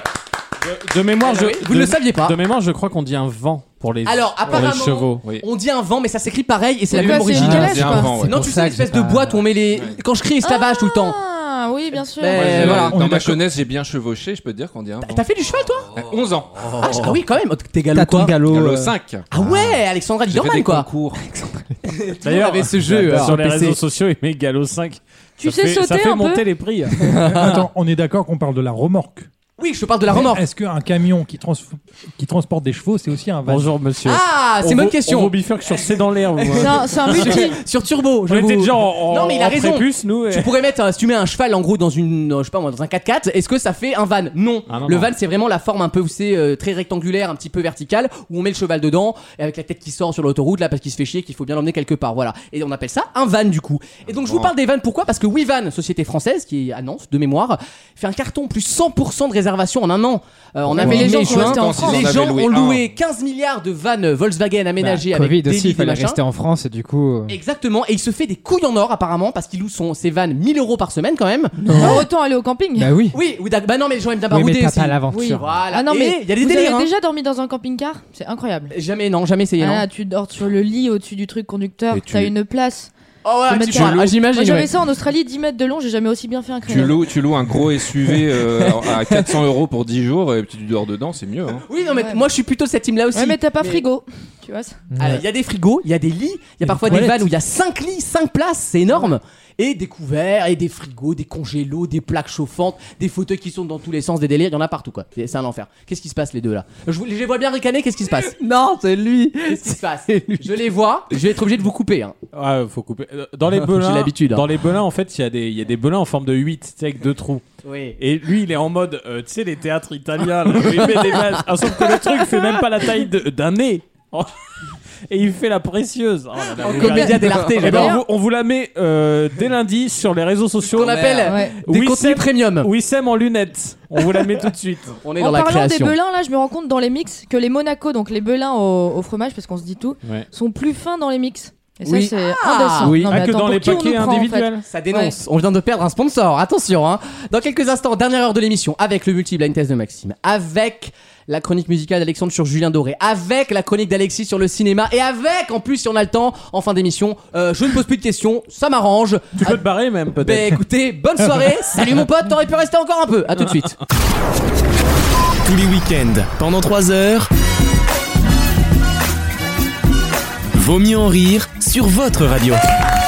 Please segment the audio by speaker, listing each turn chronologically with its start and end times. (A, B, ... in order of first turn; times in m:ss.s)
0:00.6-0:05.2 A
0:01.2-0:02.4 B
0:04.0-0:11.2 B
0:06.9-0:08.1 C
0:06.9-0:08.4 D
0:07.3-0:09.5 E
0:10.4-0:12.5 C
0:12.2-0:13.0 B
0:12.3-0:15.2 D
0:15.0-0:15.9 B
0:15.9-0:17.2 D
0:16.8-0:18.4 B
0:17.9-0:19.0 E
0:18.4-0:21.2 D
0:19.3-0:20.9 B
0:21.2-0:21.6 E
0:21.9-0:23.8 B
0:22.2-0:27.5 A
0:22.9-0:23.4 E
0:25.4-0:26.4 C
0:27.0-0:27.5 B
0:27.1-0:29.3 F
0:29.6-0:30.4 B
0:30.1-0:33.7 F
0:33.4-0:37.4 A
0:34.0-1:06.2 B
0:36.6-0:37.6 C
0:38.3-0:40.5 A
0:44.7-0:45.1 A
0:54.1-0:54.5 D
1:00.7-1:02.9 D
1:00.7-1:02.1 C
1:04.8-1:07.4 E
1:07.3-1:11.9 B
1:11.6-1:12.0 E
1:11.8-1:12.9 C
1:12.8-1:13.2 E
1:13.1-1:16.9 B
1:14.3-1:15.5 E
1:15.1-1:18.7 C
1:18.7-1:19.8 B
1:19.6-1:22.9 C
1:21.9-1:22.3 D
1:23.2-1:24.7 B
1:23.5-1:27.0 C
1:26.7-1:31.6 D
1:28.9-1:29.2 B
1:31.7-1:33.8 B
1:31.8-1:32.2 C
1:33.1-1:34.8 C
1:34.9-1:35.2 E
1:35.0-1:48.4 B
1:36.7-1:37.3 F
1:48.2-1:50.5 G
1:49.5-1:52.2 B
1:52.3-1:57.4 A
1:53.5-1:54.4 B
1:57.6-1:58.0 B
1:58.0-2:04.3 A
2:05.1-2:15.0 A
2:06.6-2:08.0 B
2:06.8-2:07.2 C
2:10.7-2:12.7 B
2:11.3-2:11.5 C
2:15.0-2:16.0 B
2:15.2-2:25.1 C
2:21.8-2:23.1 B
2:22.8-2:24.6 A
2:24.7-2:39.6 B
2:39.4-2:40.6 A
2:40.2-2:43.8 B
2:45.4-2:47.3 H
2:50.5-2:52.6 H